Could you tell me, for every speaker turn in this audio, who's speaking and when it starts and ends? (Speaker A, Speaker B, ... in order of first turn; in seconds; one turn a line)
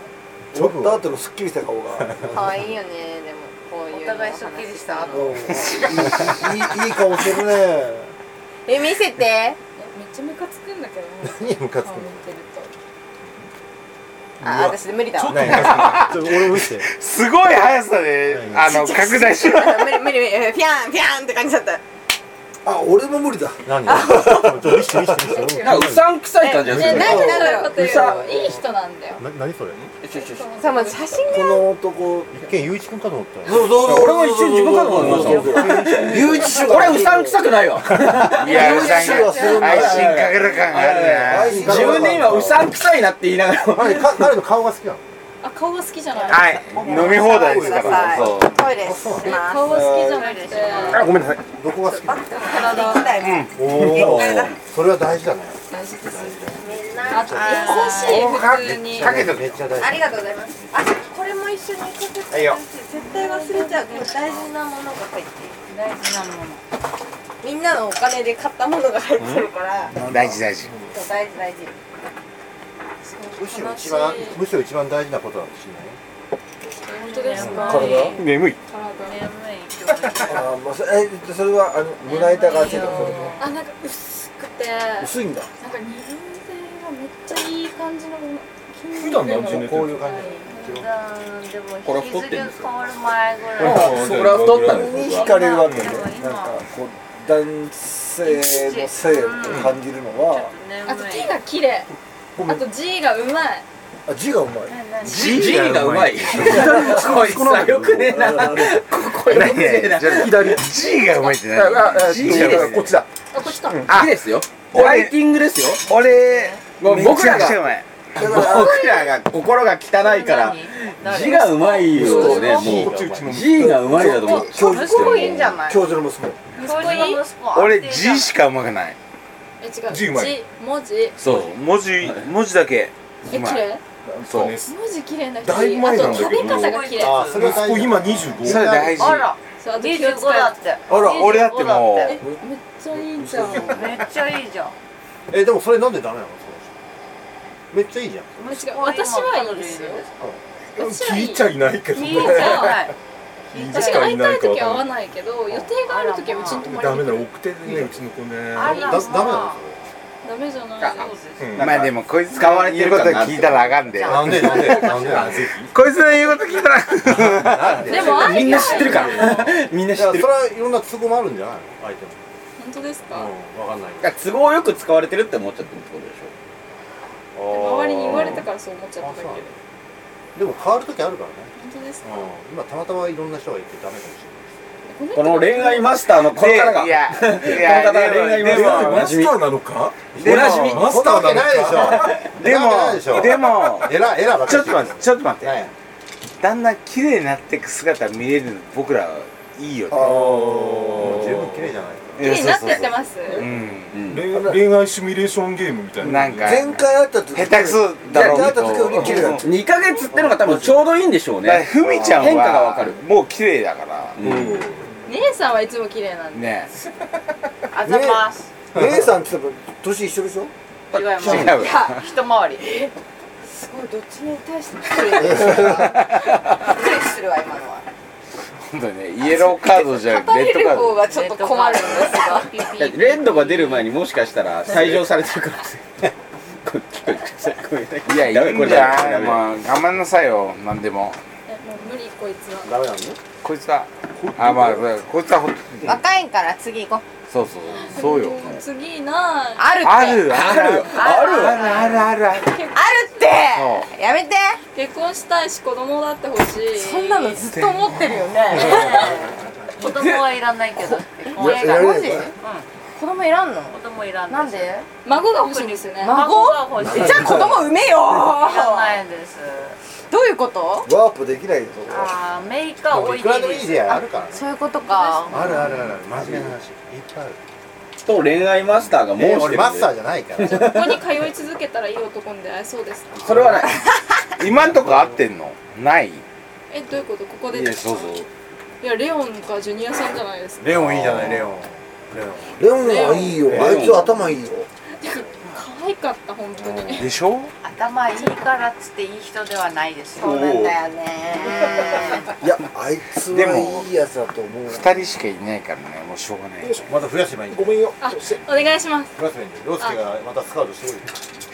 Speaker A: 0.5-1.1
Speaker B: 0.5-2.4
Speaker A: 2.0-2.6
Speaker C: 2.3-5.7
Speaker D: 3.9-5.5
Speaker B: 5.1-8.1
Speaker E: 5.7-6.0
Speaker A: 6.0-6.4
Speaker C: 8.7-9.6
Speaker F: 9.8-12.7
Speaker A: 11.2-12.3
Speaker C: 14.4-15.6
Speaker G: 14.5-16.1
Speaker A: 15.3-16.9
Speaker E: 15.5-20.1
Speaker A: 18.3-18.7
Speaker C: 18.6-21.8
Speaker B: 22.6-25.0
Speaker A: 23.6-26.1
Speaker C: 23.9-24.6
Speaker F: 25.2-29.2
Speaker H: 25.6-28.6
Speaker C: 26.4-27.8
Speaker A: 26.7-27.3
Speaker B: 26.9-27.4
Speaker A: 29.2-29.8
Speaker H: 30.0-30.5
Speaker F: 30.1-31.4
Speaker C: 30.6-31.6
Speaker B: 31.3-32.3
Speaker A: 32.3-34.1
Speaker B: 33.5-37.4
Speaker H: 33.7-44.3
Speaker A: 34.9-36.7
Speaker A: 37.9-38.3
Speaker E: 38.3-41.7
Speaker B: 38.4-42.7
Speaker F: 38.5-39.8
Speaker A: 41.4-42.7
Speaker A: 43.7-45.0
Speaker F: 45.4-46.9
Speaker C: 46.1-49.8
Speaker E: 46.3-48.7
Speaker A: 46.7-49.4
Speaker F: 49.2-51.2
Speaker D: 49.8-51.2
Speaker A: 50.9-52.3
Speaker F: 51.8-53.2
Speaker C: 52.0-54.5
Speaker E: 53.2-54.2
Speaker A: 53.6-60.1
Speaker H: 53.7-54.6
Speaker F: 55.7-59.2
Speaker C: 56.6-58.3
Speaker D: 57.3-58.3
Speaker E: 58.1-59.6
Speaker C: 59.8-65.6
Speaker E: 62.3-62.6
Speaker F: 63.0-64.1
Speaker D: 65.7-66.6
Speaker C: 67.4-70.0
Speaker E: 70.1-70.7
Speaker C: 70.9-71.7
Speaker F: 73.0-74.4
Speaker A: 73.3-76.0
Speaker F: 76.8-79.2
Speaker D: 76.9-78.2
Speaker A: 77.4-77.8
Speaker B: 77.6-78.2
Speaker E: 78.2-78.5
Speaker D: 79.0-80.5
Speaker B: 80.3-83.4
Speaker D: 82.1-83.5
Speaker F: 82.1-90.8
Speaker B: 85.0-85.5
Speaker G: 88.9-90.2
Speaker A: 89.7-90.7
Speaker D: 90.6-94.1
Speaker H: 91.8-92.8
Speaker G: 93.6-95.0
Speaker H: 93.6-95.3
Speaker B: 93.6-93.9
Speaker B: 94.7-100.5
Speaker D: 94.9-96.7
Speaker G: 95.5-96.1
Speaker D: 98.2-101.4
Speaker F: 100.8-103.7
Speaker B: 104.1-104.8
Speaker D: 104.7-105.5
Speaker H: 105.0-110.6
Speaker E: 105.0-108.2
Speaker G: 105.4-108.8
Speaker E: 109.2-113.0
Speaker G: 110.1-110.7
Speaker G: 111.5-113.9
Speaker H: 111.9-112.7
Speaker F: 113.3-113.9
Speaker E: 113.9-114.2
Speaker H: 113.9-115.9
Speaker E: 114.7-115.2
Speaker D: 115.9-116.8
Speaker E: 115.9-117.9
Speaker H: 116.7-117.6
Speaker H: 118.2-125.6
Speaker B: 118.2-118.8
Speaker F: 118.2-119.1
Speaker D: 119.9-122.6
Speaker B: 122.0-122.9
Speaker G: 122.0-124.3
Speaker F: 122.0-122.7
Speaker A: 122.6-123.4
Speaker B: 123.6-126.5
Speaker D: 124.0-125.8
Speaker F: 126.6-127.3
Speaker D: 126.6-128.4
Speaker E: 127.5-129.0
Speaker F: 129.6-131.2
Speaker G: 129.9-130.4
Speaker E: 131.2-133.7
Speaker F: 133.3-133.8
Speaker G: 134.1-134.7
Speaker E: 134.3-134.6
Speaker F: 134.6-137.3
Speaker G: 135.4-139.0
Speaker D: 135.9-138.1
Speaker A: 137.0-139.2
Speaker E: 138.4-139.3
Speaker D: 139.0-142.2
Speaker F: 139.5-140.6
Speaker E: 141.0-142.2
Speaker F: 142.0-143.9
Speaker G: 143.2-143.6
Speaker D: 143.6-144.8
Speaker A: 145.3-146.8
Speaker A: 147.7-148.4
Speaker D: 148.4-150.4
Speaker F: 148.5-150.1
Speaker G: 150.8-152.9
Speaker F: 150.8-151.5
Speaker D: 151.9-153.0
Speaker F: 152.0-152.9
Speaker D: 153.5-154.3
Speaker G: 153.5-154.9
Speaker F: 153.7-157.3
Speaker D: 155.8-156.7
Speaker G: 156.6-159.0
Speaker A: 157.7-158.0
Speaker D: 158.5-159.6
Speaker A: 158.6-159.8
Speaker F: 160.2-161.2
Speaker H: 160.8-163.8
Speaker D: 160.9-161.8
Speaker G: 161.4-161.8
Speaker E: 161.6-164.9
Speaker D: 163.9-165.3
Speaker A: 164.0-165.7
Speaker G: 164.7-165.7
Speaker H: 165.1-165.4
Speaker E: 165.7-167.8
Speaker A: 167.1-172.2
Speaker H: 167.7-170.3
Speaker F: 167.8-169.5
Speaker D: 168.0-169.5
Speaker F: 172.6-173.3
Speaker A: 173.1-174.2
Speaker H: 174.0-176.3
Speaker A: 177.3-178.5
Speaker F: 177.5-179.5
Speaker H: 178.1-178.4
Speaker A: 179.0-179.5
Speaker A: 180.3-181.5
Speaker F: 181.6-182.2
Speaker A: 182.0-184.8
Speaker F: 184.9-186.0
Speaker H: 185.1-189.4
Speaker E: 186.3-189.2
Speaker G: 188.4-192.2
Speaker H: 190.2-191.0
Speaker E: 190.2-190.9
Speaker A: 190.5-195.7
Speaker H: 191.6-192.3
Speaker E: 192.2-195.6
Speaker E: 196.4-200.2
Speaker B: 199.9-201.3
Speaker A: 199.9-202.4
Speaker G: 200.0-201.4
Speaker E: 202.2-204.0
Speaker F: 202.2-203.5
Speaker H: 203.9-204.3
Speaker G: 204.0-206.7
Speaker B: 204.3-204.6
Speaker E: 206.0-206.8
Speaker B: 206.3-209.5
Speaker E: 207.3-209.5
Speaker H: 208.1-213.0
Speaker F: 209.8-210.1
Speaker A: 210.2-210.7
Speaker E: 211.4-214.2
Speaker A: 211.9-212.2
Speaker H: 214.2-214.6
Speaker G: 214.2-214.9
Speaker F: 215.1-216.7
Speaker E: 216.3-216.7
Speaker D: 217.7-218.5
Speaker B: 217.9-218.2
Speaker B: 218.7-220.5
Speaker A: 218.8-219.0
Speaker D: 220.9-222.7
Speaker H: 221.0-221.5
Speaker E: 221.2-222.0
Speaker F: 221.4-222.1
Speaker C: 223.5-226.0
Speaker F: 225.1-225.3
Speaker E: 225.6-226.6
Speaker C: 226.6-227.9
Speaker E: 228.7-231.0
Speaker F: 229.3-232.5
Speaker D: 231.0-233.9
Speaker C: 231.3-232.5
Speaker H: 232.8-236.1
Speaker H: 236.6-239.4
Speaker E: 238.1-241.2
Speaker F: 241.5-242.8
Speaker A: 242.6-243.2
Speaker E: 243.4-246.0
Speaker G: 244.2-244.7
Speaker C: 245.8-247.1
Speaker E: 247.3-248.6
Speaker F: 247.7-250.1
Speaker C: 249.6-250.4
Speaker E: 249.8-252.6
Speaker H: 250.3-251.8
Speaker F: 250.6-251.3
Speaker D: 251.0-252.0
Speaker F: 252.3-253.4
Speaker C: 252.7-254.6
Speaker E: 253.5-253.9
Speaker F: 254.7-257.5
Speaker C: 256.7-259.3
Speaker E: 257.5-258.2
Speaker D: 258.6-259.2
Speaker A: 258.6-259.8
Speaker F: 258.7-259.0
Speaker D: 259.8-262.7
Speaker C: 260.9-262.3
Speaker B: 261.4-262.3
Speaker C: 262.9-263.8
Speaker D: 263.7-269.8
Speaker C: 264.3-264.9
Speaker F: 265.0-266.3
Speaker C: 266.0-269.0
Speaker A: 266.9-267.3
Speaker B: 266.9-267.6
Speaker C: 270.1-270.9
Speaker B: 270.9-272.1
Speaker D: 271.9-274.0
Speaker A: 272.9-274.4
Speaker C: 273.9-275.5
Speaker F: 274.8-275.7
Speaker A: 275.3-277.4
Speaker H: 278.1-281.0
Speaker A: 279.1-281.0
Speaker F: 280.5-283.4
Speaker A: 283.2-283.7
Speaker H: 283.2-283.8
Speaker E: 284.4-286.2
Speaker A: 284.5-285.2
Speaker F: 286.7-288.2
Speaker E: 287.5-288.3
Speaker F: 288.8-291.1
Speaker A: 290.6-292.6
Speaker E: 291.0-291.5
Speaker B: 292.6-294.7
Speaker F: 292.8-293.6
Speaker H: 293.5-294.3
Speaker A: 293.5-293.9
Speaker F: 295.0-297.2
Speaker A: 296.6-297.0
Speaker E: 297.0-297.5
Speaker D: 297.6-300.7
Speaker F: 298.1-298.4
Speaker C: 300.2-302.3
Speaker H: 300.2-300.7
Speaker B: 302.4-304.9
Speaker E: 303.3-303.9
Speaker E: 304.7-306.9
Speaker G: 306.6-306.9
Speaker A: 306.9-307.9
Speaker G: 307.5-308.5
Speaker F: 308.0-309.1
Speaker A: 309.2-311.2